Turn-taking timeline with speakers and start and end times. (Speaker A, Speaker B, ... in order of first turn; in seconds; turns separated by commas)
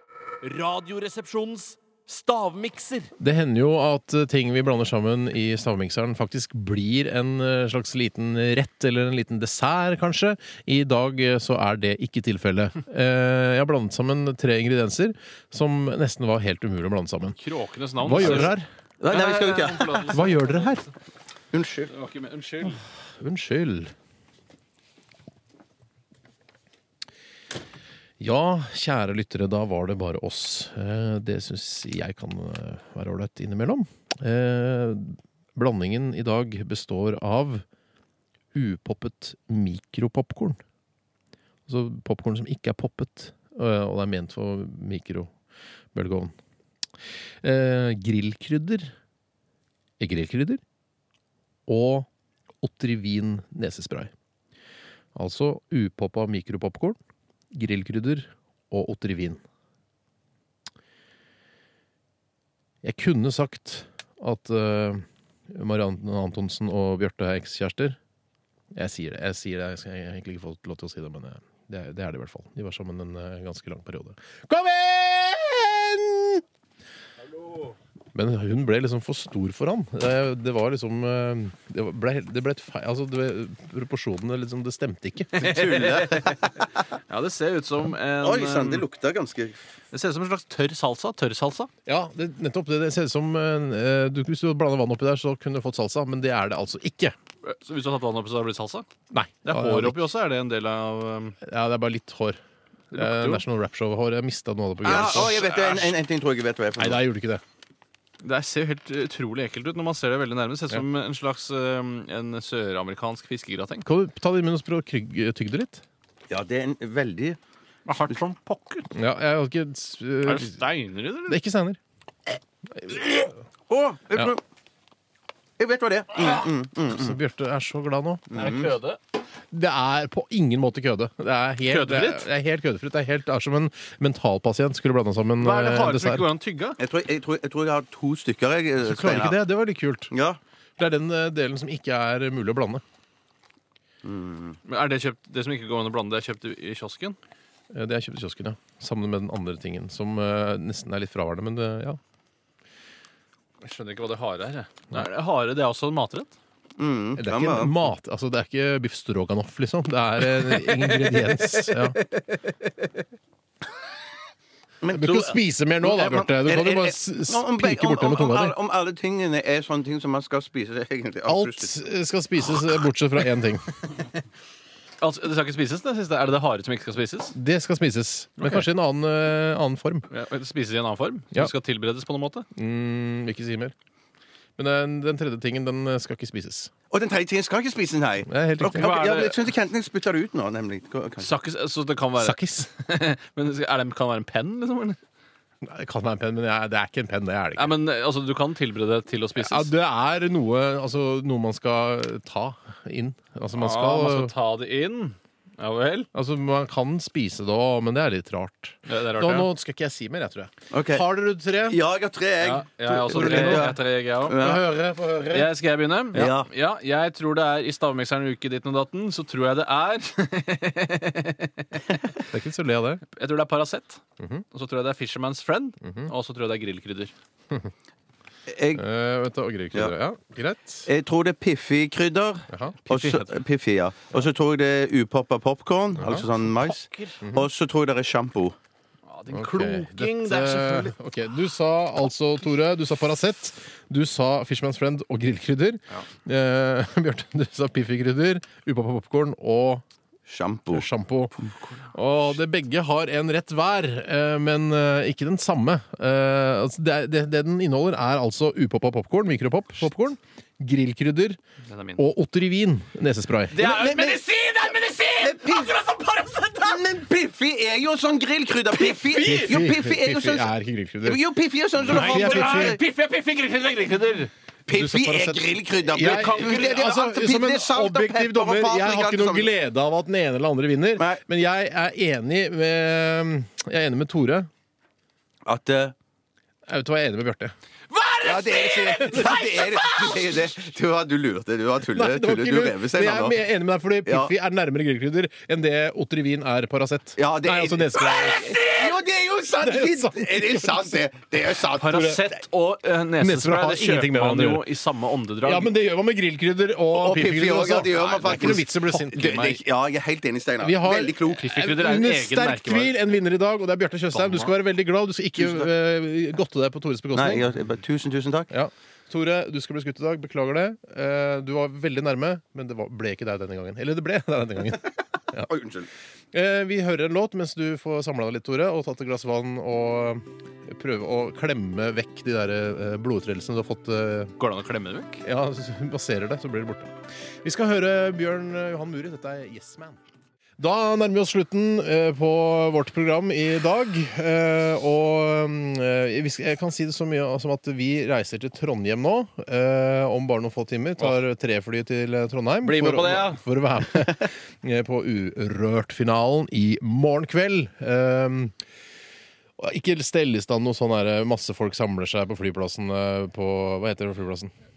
Speaker A: 0.4-3.0, Speaker B: 3.2-17.4, Speaker A: 17.4-18.6, Speaker B: 18.0-18.7, Speaker C: 19.0-20.2, Speaker A: 19.1-20.8, Speaker B: 20.0-20.9, Speaker C: 21.5-21.9, Speaker A: 21.9-22.8, Speaker B: 23.2-23.9, Speaker B: 28.2-37.6, Speaker B: 38.5-40.6, Speaker B: 41.7-45.3, Speaker B: 45.9-46.3, Speaker B: 47.4-48.9, Speaker B: 50.0-50.6, Speaker B: 51.7-52.1, Speaker B: 52.6-54.1, Speaker B: 55.1-57.0, Speaker B: 57.5-59.4, Speaker B: 62.8-68.0, Speaker B: 68.7-76.4, Speaker B: 78.1-85.5, Speaker A: 85.3-88.8, Speaker C: 85.4-86.6, Speaker C: 88.2-89.6, Speaker A: 89.9-91.7, Speaker B: 91.8-97.1, Speaker A: 97.4-98.8, Speaker B: 99.1-100.1, Speaker A: 99.4-101.3, Speaker B: 101.4-102.4, Speaker A: 102.9-103.4, Speaker B: 102.9-105.4, Speaker C: 104.8-107.0, Speaker A: 104.8-105.9, Speaker B: 106.8-107.4, Speaker A: 108.2-113.9, Speaker B: 113.8-115.8, Speaker C: 116.3-117.4, Speaker A: 117.8-118.9, Speaker B: 118.9-120.7, Speaker A: 120.2-121.4, Speaker B: 121.2-121.8, Speaker B: 122.8-123.3, Speaker C: 123.7-124.4, Speaker C: 125.6-127.2, Speaker B: 126.9-128.4, Speaker C: 128.3-128.8, Speaker A: 128.3-129.0, Speaker B: 129.5-136.3, Speaker A: 131.6-132.3, Speaker A: 135.4-136.8, Speaker C: 136.8-139.4, Speaker B: 138.8-140.1, Speaker C: 140.1-140.4, Speaker B: 140.8-142.8, Speaker C: 144.0-144.6, Speaker A: 144.6-147.2, Speaker B: 147.7-152.0, Speaker A: 153.6-156.3, Speaker C: 156.8-157.8, Speaker B: 157.2-162.0, Speaker C: 164.8-171.8, Speaker B: 164.9-168.6, Speaker B: 171.2-173.7, Speaker A: 175.0-177.3, Speaker B: 177.3-180.1, Speaker A: 178.4-178.7, Speaker A: 180.1-182.4, Speaker B: 182.5-183.7, Speaker B: 184.6-186.7, Speaker C: 186.9-191.3, Speaker B: 188.2-189.0, Speaker A: 188.7-189.4, Speaker A: 191.2-195.0, Speaker B: 192.2-192.7, Speaker B: 195.6-197.8, Speaker A: 197.6-199.7, Speaker B: 199.3-204.3, Speaker A: 203.5-206.1, Speaker B: 206.1-211.8, Speaker A: 208.8-209.5, Speaker C: 210.7-211.0, Speaker C: 211.7-214.7, Speaker A: 212.4-214.6, Speaker B: 213.1-213.7, Speaker B: 214.4-215.5, Speaker A: 215.3-222.3, Speaker C: 216.1-216.5, Speaker B: 222.3-223.0, Speaker A: 223.1-227.1, Speaker B: 224.2-224.4, Speaker B: 225.8-226.1, Speaker C: 228.5-228.8, Speaker B: 228.7-230.9, Speaker C: 230.8-238.5, Speaker B: 232.5-233.2, Speaker B: 236.0-236.3, Speaker A: 236.4-237.2, Speaker B: 237.2-237.5, Speaker A: 239.1-240.9, Speaker B: 239.3-249.8, Speaker C: 250.3-250.9, Speaker B: 250.7-261.4, Speaker A: 261.6-262.1, Speaker B: 261.9-263.8, Speaker A: 263.5-266.8, Speaker C: 263.6-264.2, Speaker C: 265.2-265.8, Speaker C: 266.6-270.5, Speaker A: 268.8-269.6, Speaker B: 269.1-271.2, Speaker C: 271.0-272.8, Speaker B: 271.8-272.8, Speaker A: 271.9-274.3, Speaker C: 274.7-279.5, Speaker B: 274.7-284.5, Speaker A: 275.9-276.8, Speaker C: 280.9-281.2, Speaker C: 285.4-285.9, Speaker B: 286.7-287.5, Speaker A: 287.9-290.3, Speaker C: 288.2-293.4, Speaker B: 289.0-289.4, Speaker B: 291.9-298.6, Speaker C: 294.0-294.3, Speaker C: 297.2-302.2, Speaker B: 299.6-301.0, Speaker A: 301.8-305.7, Speaker B: 303.2-304.6, Speaker B: 305.4-309.6, Speaker C: 306.9-311.4, Speaker A: 308.0-308.6, Speaker B: 310.6-317.6, Speaker A: 311.3-312.9, Speaker A: 314.1-314.5, Speaker C: 315.4-315.7, Speaker C: 317.1-318.5, Speaker B: 318.5-325.5, Speaker C: 325.4-325.9, Speaker B: 326.3-334.3, Speaker A: 334.4-335.2, Speaker B: 335.2-336.9, Speaker B: 337.4-340.0, Speaker B: 340.6-358.5, Speaker A: 352.6-353.4, Speaker B: 359.6-364.5